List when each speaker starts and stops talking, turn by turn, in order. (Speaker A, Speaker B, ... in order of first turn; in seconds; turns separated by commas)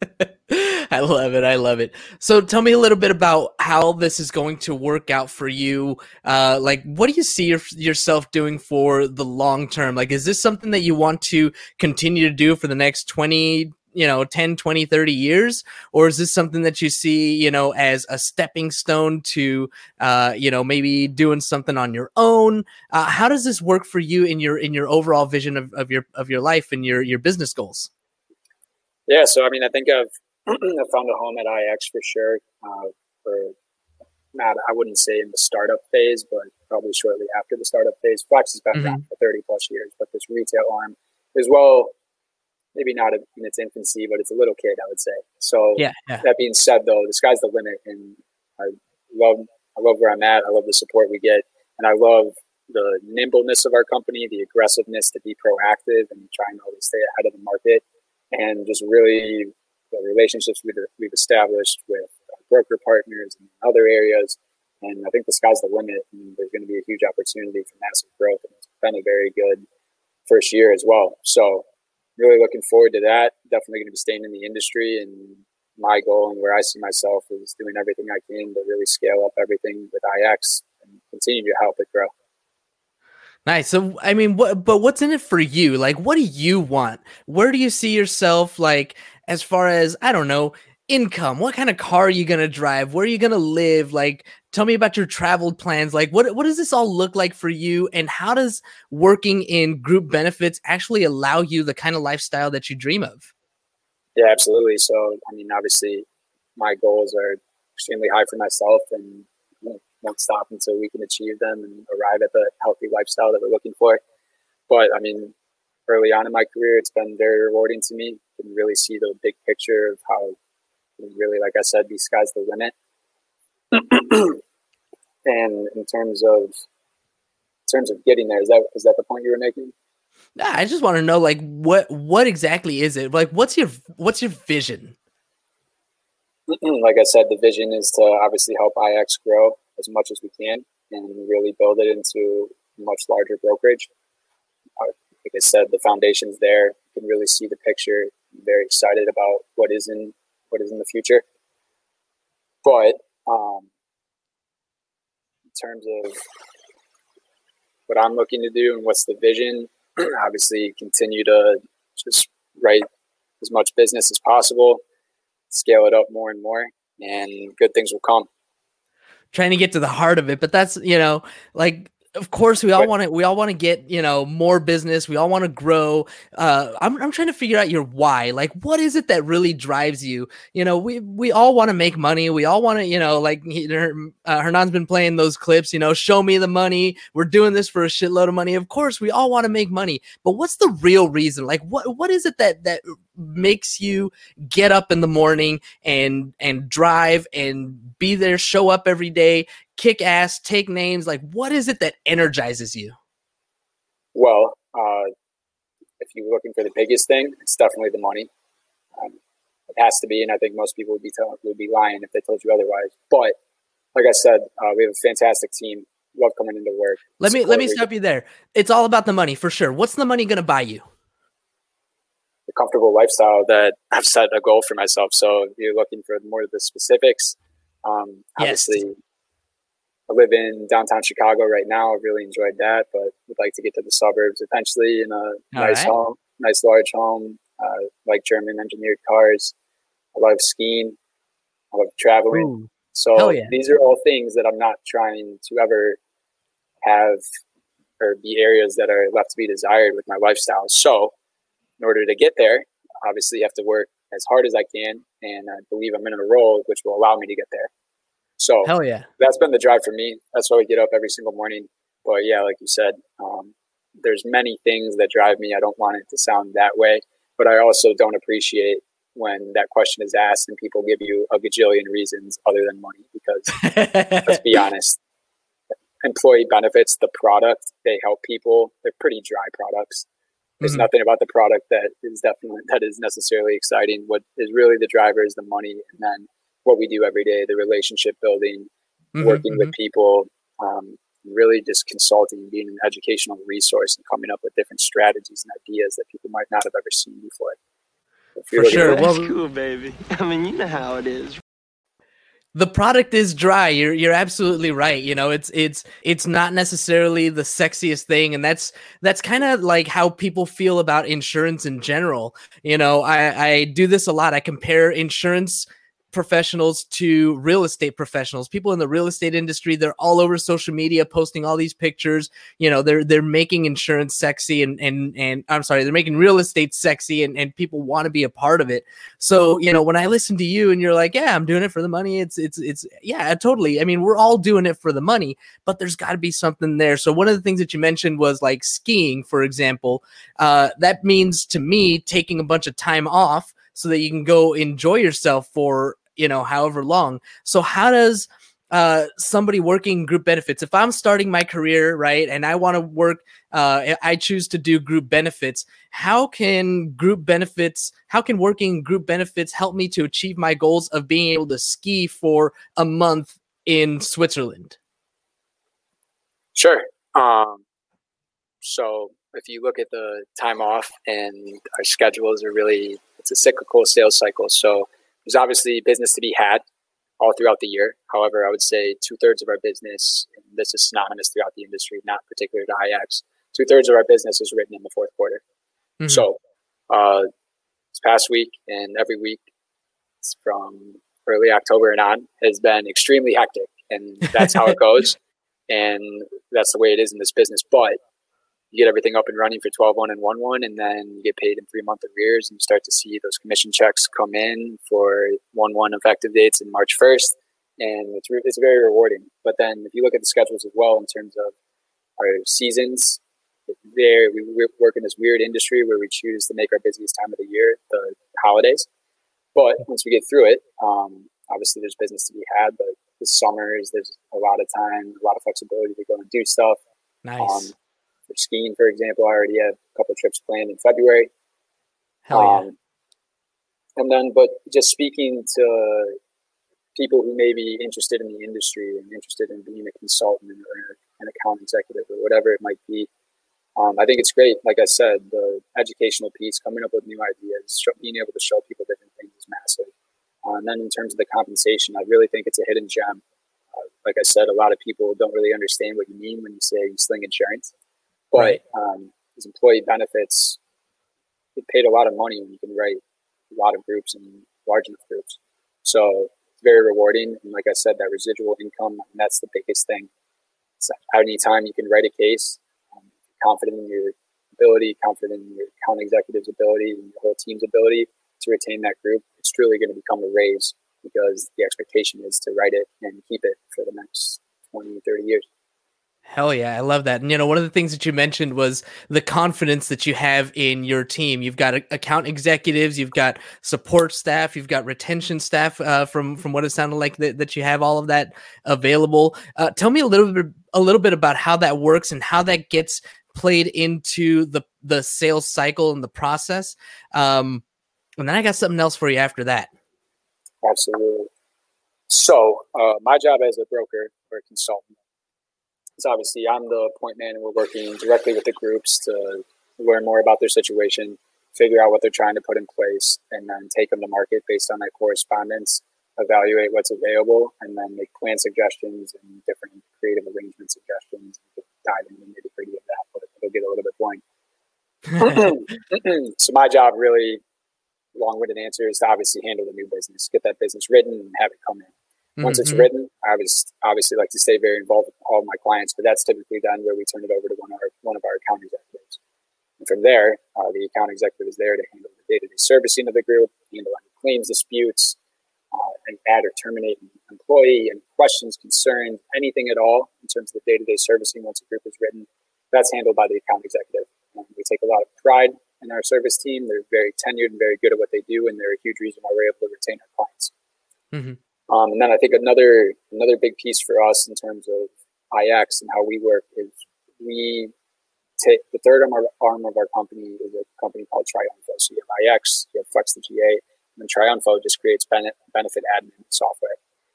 Speaker A: 0.2-27.9, Speaker B: 29.1-33.5, Speaker B: 34.3-41.9, Speaker A: 38.7-39.0, Speaker B: 42.7-69.6, Speaker A: 45.8-46.2, Speaker B: 70.3-71.6, Speaker B: 72.2-82.1, Speaker A: 83.5-103.3, Speaker B: 104.2-106.0, Speaker B: 106.5-114.0, Speaker B: 114.7-115.3, Speaker B: 115.9-120.3, Speaker B: 121.0-122.7, Speaker B: 123.7-124.4, Speaker B: 125.2-126.5, Speaker B: 127.7-129.7, Speaker A: 130.3-134.9, Speaker B: 136.5-143.9, Speaker B: 144.8-151.2, Speaker B: 152.6-153.7, Speaker B: 155.5-156.2, Speaker B: 157.9-162.8, Speaker B: 163.4-164.8, Speaker B: 165.5-168.3, Speaker A: 169.3-202.9, Speaker B: 204.1-205.1, Speaker B: 206.0-208.3, Speaker B: 209.7-213.3, Speaker B: 213.9-217.8, Speaker A: 217.2-220.9, Speaker B: 222.5-228.9, Speaker A: 228.4-228.8, Speaker B: 230.1-239.5, Speaker A: 235.5-235.9, Speaker B: 240.1-240.9, Speaker B: 241.7-246.0, Speaker A: 242.3-243.5, Speaker B: 246.8-247.2, Speaker B: 248.0-251.1, Speaker B: 251.8-257.7, Speaker B: 258.4-275.0, Speaker A: 258.6-259.1, Speaker A: 273.6-274.4, Speaker B: 276.0-280.0, Speaker A: 280.6-280.9, Speaker B: 280.6-297.6, Speaker A: 289.1-289.7, Speaker B: 298.4-299.0, Speaker A: 298.5-299.3, Speaker C: 298.6-301.4, Speaker A: 302.5-364.8, Speaker B: 366.5-367.6, Speaker B: 368.6-376.6, Speaker B: 377.2-385.4, Speaker B: 386.1-386.4, Speaker B: 386.9-387.3, Speaker B: 387.9-389.4, Speaker B: 390.2-395.1, Speaker B: 395.7-398.0, Speaker B: 398.7-411.5, Speaker B: 412.2-418.9, Speaker B: 419.5-426.8, Speaker A: 427.2-427.7, Speaker B: 427.4-427.7, Speaker B: 428.3-431.3, Speaker A: 432.3-432.6, Speaker B: 432.3-432.7, Speaker B: 434.0-436.2, Speaker B: 436.9-443.1, Speaker B: 443.8-449.9, Speaker B: 450.4-453.2, Speaker B: 453.8-457.7, Speaker B: 458.3-460.6, Speaker B: 461.6-470.1, Speaker B: 470.8-472.6, Speaker B: 473.4-485.4, Speaker A: 486.3-507.6, Speaker A: 508.2-509.7, Speaker B: 510.6-511.3, Speaker B: 512.1-515.0, Speaker B: 516.0-534.2, Speaker B: 535.2-537.4, Speaker B: 538.1-549.2, Speaker A: 542.4-542.9, Speaker B: 549.8-555.1, Speaker B: 555.7-570.5, Speaker B: 571.7-577.7, Speaker B: 578.4-586.8